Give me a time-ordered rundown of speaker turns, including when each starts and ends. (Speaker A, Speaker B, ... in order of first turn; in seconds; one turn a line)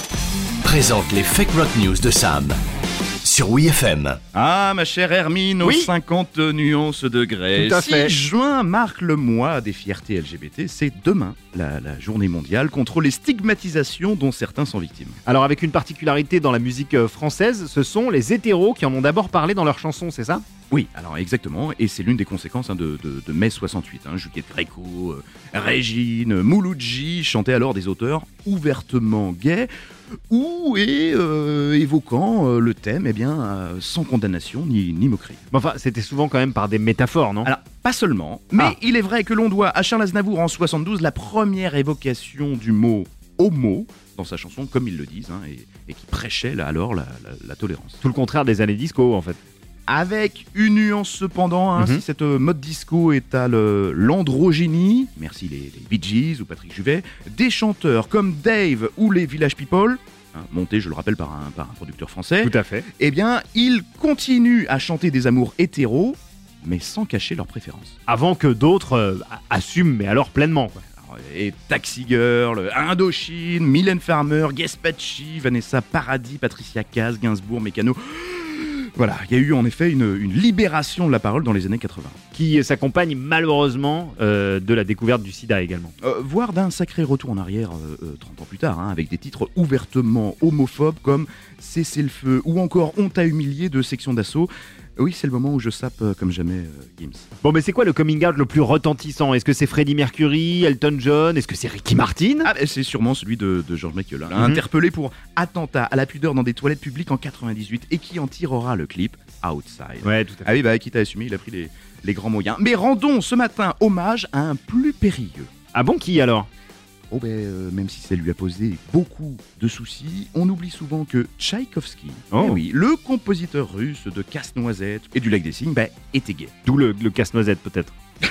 Speaker A: 0.6-2.6
Speaker A: 3.2-4.2
Speaker B: 4.3-15.2
Speaker C: 5.6-5.9
Speaker C: 7.5-8.2
Speaker C: 15.2-20.4
Speaker B: 20.7-29.7
Speaker B: 30.3-35.4
Speaker C: 35.5-37.5
Speaker B: 37.4-48.0
Speaker C: 48.0-49.4
Speaker B: 49.9-68.0
Speaker C: 51.8-52.0
Speaker C: 62.4-62.9
Speaker C: 68.1-70.8
Speaker B: 71.0-82.2
Speaker C: 82.3-85.9
Speaker B: 86.0-97.3
Speaker C: 97.4-102.5
Speaker B: 102.4-115.5
Speaker C: 104.3-104.6
Speaker C: 110.0-110.5
Speaker C: 115.7-116.5
Speaker B: 117.1-126.5
Speaker C: 122.3-122.6
Speaker C: 126.7-127.9